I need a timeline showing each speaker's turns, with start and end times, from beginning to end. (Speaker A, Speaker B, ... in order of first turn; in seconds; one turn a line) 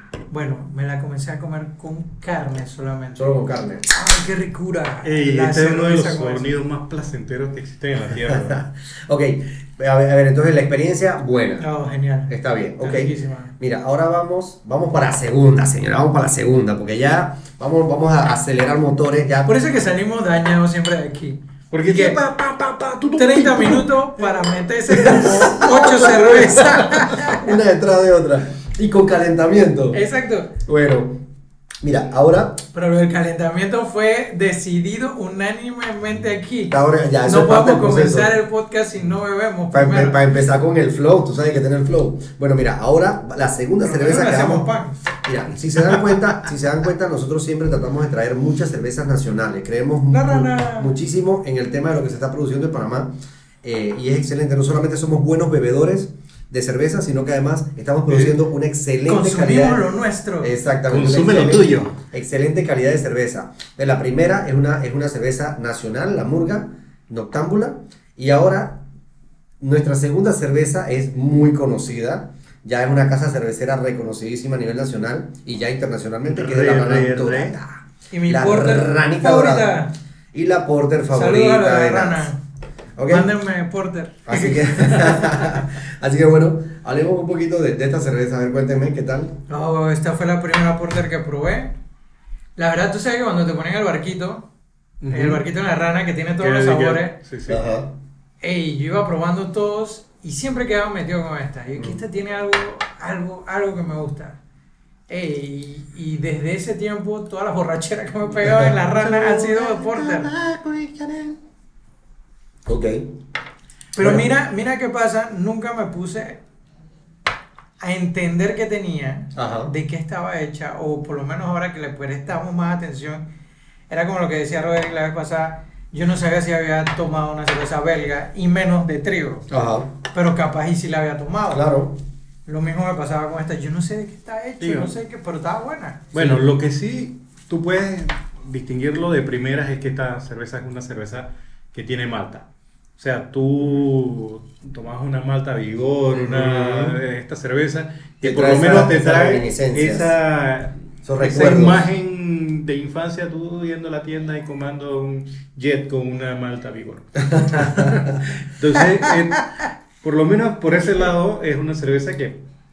Speaker A: 0.3-6.5
Speaker B: 3.1-3.9
Speaker C: 5.0-8.7
Speaker B: 8.1-11.7
Speaker A: 11.6-13.5
Speaker B: 12.3-19.5
Speaker A: 19.4-22.2
Speaker C: 21.7-23.9
Speaker A: 23.1-27.5
Speaker B: 24.9-30.0
Speaker C: 25.2-25.5
Speaker A: 29.9-30.5
Speaker B: 30.6-31.2
Speaker B: 31.8-32.6
Speaker A: 32.7-40.2
Speaker B: 36.7-38.3
Speaker B: 39.7-44.7
Speaker A: 43.8-45.0
Speaker B: 45.2-59.9
Speaker A: 50.1-51.0
Speaker C: 58.1-58.4
Speaker A: 59.0-60.5
Speaker B: 60.4-68.8
Speaker C: 60.9-61.9
Speaker B: 69.6-79.8
Speaker C: 76.3-77.6
Speaker A: 78.1-79.9
Speaker B: 80.3-82.3
Speaker A: 81.1-82.4
Speaker B: 83.0-83.3
Speaker A: 83.1-85.5
Speaker B: 84.2-89.4
Speaker A: 89.5-91.7
Speaker A: 92.5-94.5
Speaker C: 95.0-95.4
Speaker A: 95.1-97.2
Speaker C: 96.4-97.6
Speaker B: 97.5-98.0
Speaker A: 98.4-104.4
Speaker B: 101.8-102.0
Speaker A: 105.1-110.3
Speaker C: 108.7-111.4
Speaker B: 112.7-113.1
Speaker A: 113.9-116.4
Speaker B: 114.0-114.3
Speaker A: 117.8-123.2
Speaker B: 119.3-119.7
Speaker A: 123.9-129.4
Speaker B: 129.5-129.9
Speaker A: 130.1-131.7
Speaker B: 131.5-132.0
Speaker A: 132.4-136.1
Speaker C: 134.6-134.9
Speaker B: 136.1-136.4
Speaker C: 136.1-142.5
Speaker C: 143.0-162.4
Speaker B: 146.1-147.0
Speaker B: 148.2-150.1
Speaker B: 151.0-151.9
Speaker B: 157.4-158.1